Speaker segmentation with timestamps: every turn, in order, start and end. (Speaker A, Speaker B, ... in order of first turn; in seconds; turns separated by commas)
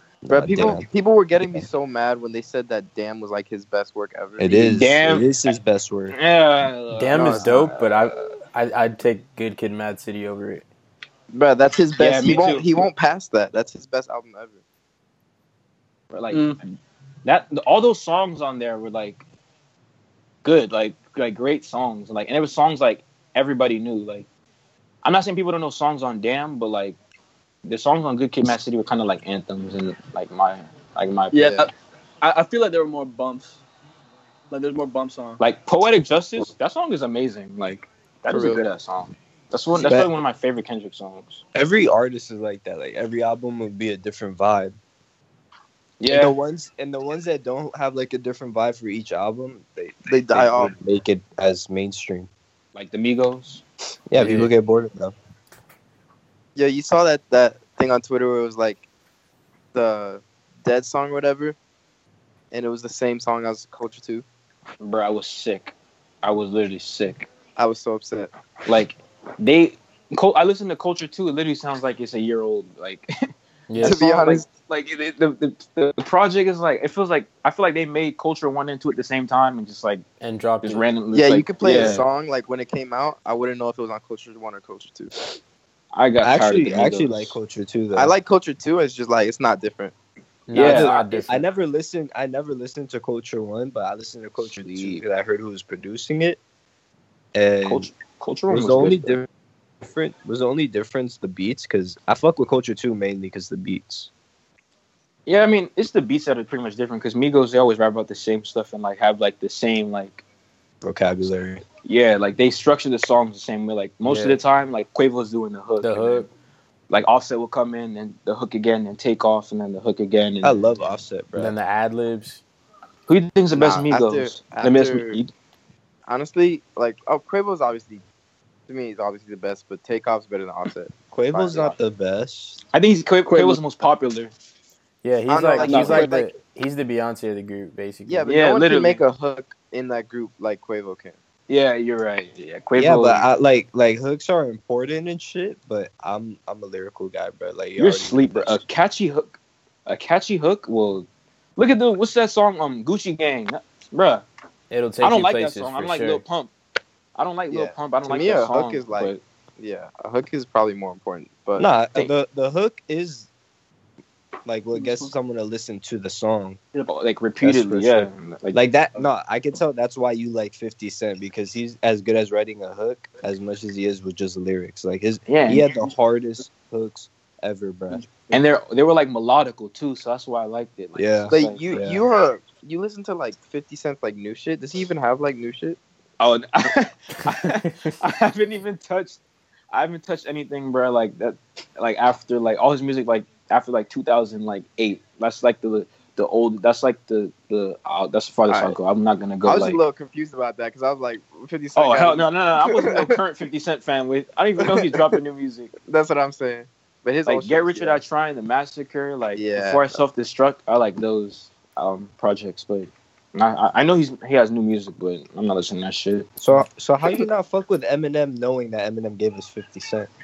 Speaker A: 0.2-0.9, Speaker B: 0.3-4.6, Speaker A: 4.4-6.2, Speaker C: 4.5-5.4, Speaker C: 6.1-8.2, Speaker D: 6.9-10.6, Speaker B: 7.1-7.5, Speaker B: 11.3-14.6, Speaker C: 12.0-12.8, Speaker C: 16.1-16.6, Speaker E: 16.3-16.6, Speaker C: 17.2-19.2, Speaker C: 20.4-24.3, Speaker C: 25.0-27.0, Speaker C: 27.6-31.7, Speaker E: 31.3-31.7, Speaker E: 32.2-33.6, Speaker E: 34.5-35.4, Speaker C: 35.4-41.4, Speaker B: 38.3-38.7, Speaker A: 39.8-40.1, Speaker A: 41.5-44.8, Speaker C: 46.0-46.4, Speaker A: 46.1-52.3, Speaker B: 50.1-50.7, Speaker C: 52.8-53.6, Speaker A: 54.1-55.1, Speaker D: 54.2-54.5, Speaker B: 56.6-58.8, Speaker B: 59.7-61.6, Speaker B: 62.5-64.2, Speaker C: 64.8-67.3, Speaker B: 67.6-68.3, Speaker C: 68.7-73.1, Speaker D: 73.7-74.0, Speaker C: 73.8-80.0, Speaker B: 73.8-74.5, Speaker D: 80.2-80.9, Speaker C: 80.6-82.0, Speaker B: 81.1-85.1, Speaker D: 81.6-82.1, Speaker C: 85.9-87.4, Speaker A: 86.2-88.1, Speaker B: 87.9-89.9, Speaker D: 90.5-91.5, Speaker C: 90.5-91.3, Speaker A: 90.6-96.4, Speaker C: 94.5-95.0, Speaker A: 97.3-97.9, Speaker C: 97.7-99.2, Speaker A: 98.5-99.3, Speaker A: 99.8-104.1, Speaker C: 105.3-110.2, Speaker A: 110.8-111.6, Speaker C: 111.8-116.3, Speaker D: 114.0-114.4, Speaker D: 115.8-116.3, Speaker C: 116.9-120.7, Speaker A: 120.4-121.5, Speaker D: 121.4-122.4, Speaker C: 123.1-125.3, Speaker B: 123.5-125.2, Speaker B: 126.1-128.0, Speaker B: 128.7-131.8, Speaker A: 131.1-132.6, Speaker C: 132.7-134.3, Speaker D: 135.0-138.3, Speaker B: 135.3-136.3, Speaker C: 135.6-136.1, Speaker B: 138.1-141.2, Speaker C: 138.3-139.0, Speaker C: 141.5-143.2, Speaker A: 142.8-148.6, Speaker C: 147.8-154.2, Speaker D: 154.7-156.2, Speaker C: 155.0-156.5, Speaker C: 157.2-159.2, Speaker B: 157.5-162.1, Speaker A: 161.6-163.3, Speaker A: 164.4-166.6, Speaker E: 164.7-165.1, Speaker C: 166.8-168.7, Speaker A: 167.4-178.1, Speaker C: 175.3-175.8, Speaker C: 178.3-181.7, Speaker A: 181.0-182.0, Speaker B: 181.3-185.8, Speaker C: 186.2-189.2, Speaker D: 187.6-187.9, Speaker C: 189.7-199.8, Speaker B: 198.5-198.8, Speaker B: 199.4-203.1, Speaker C: 201.8-205.7, Speaker B: 204.6-205.1, Speaker B: 205.9-208.0, Speaker C: 207.3-216.3, Speaker B: 209.3-210.0, Speaker A: 216.4-220.1